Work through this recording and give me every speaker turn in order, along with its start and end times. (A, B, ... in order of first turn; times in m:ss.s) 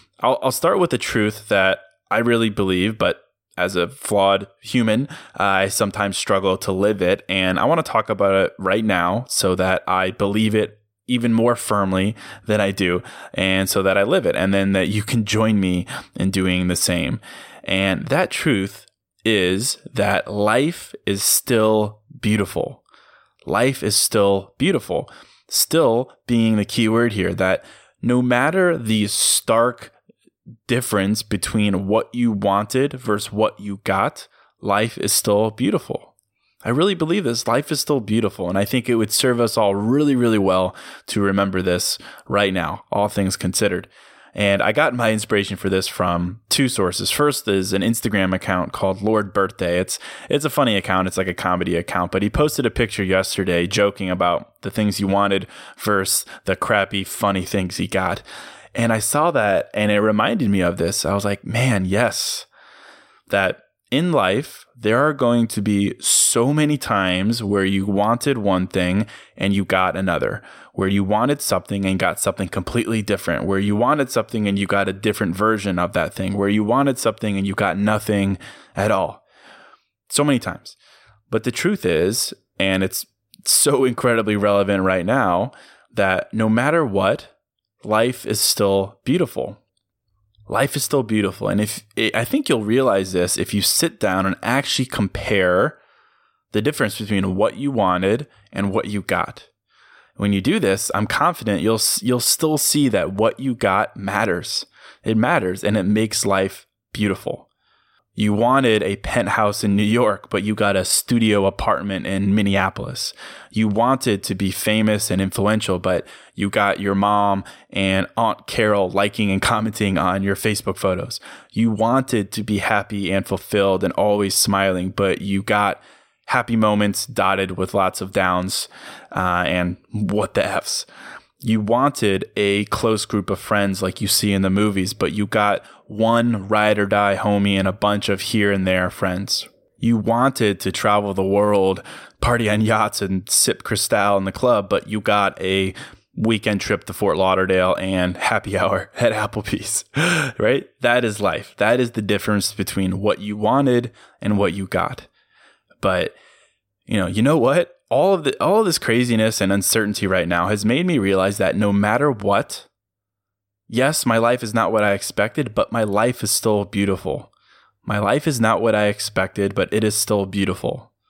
0:00.2-0:22.8 A
0:23.4-0:29.9 A
0:30.7-0:36.1 A
0:36.6-0:58.2 A
0:58.8-1:02.5 A
1:03.3-1:19.2 A
1:20.1-1:20.8 A
1:21.3-1:27.3 A
1:27.8-1:29.6 A
1:30.5-1:35.8 A
1:36.5-1:39.5 A
1:40.2-1:47.5 A
1:48.2-2:10.9 A
2:11.4-2:35.1 A
2:35.8-2:36.1 A
2:36.9-2:42.7 A
2:43.7-2:47.3 A
2:47.8-2:50.9 A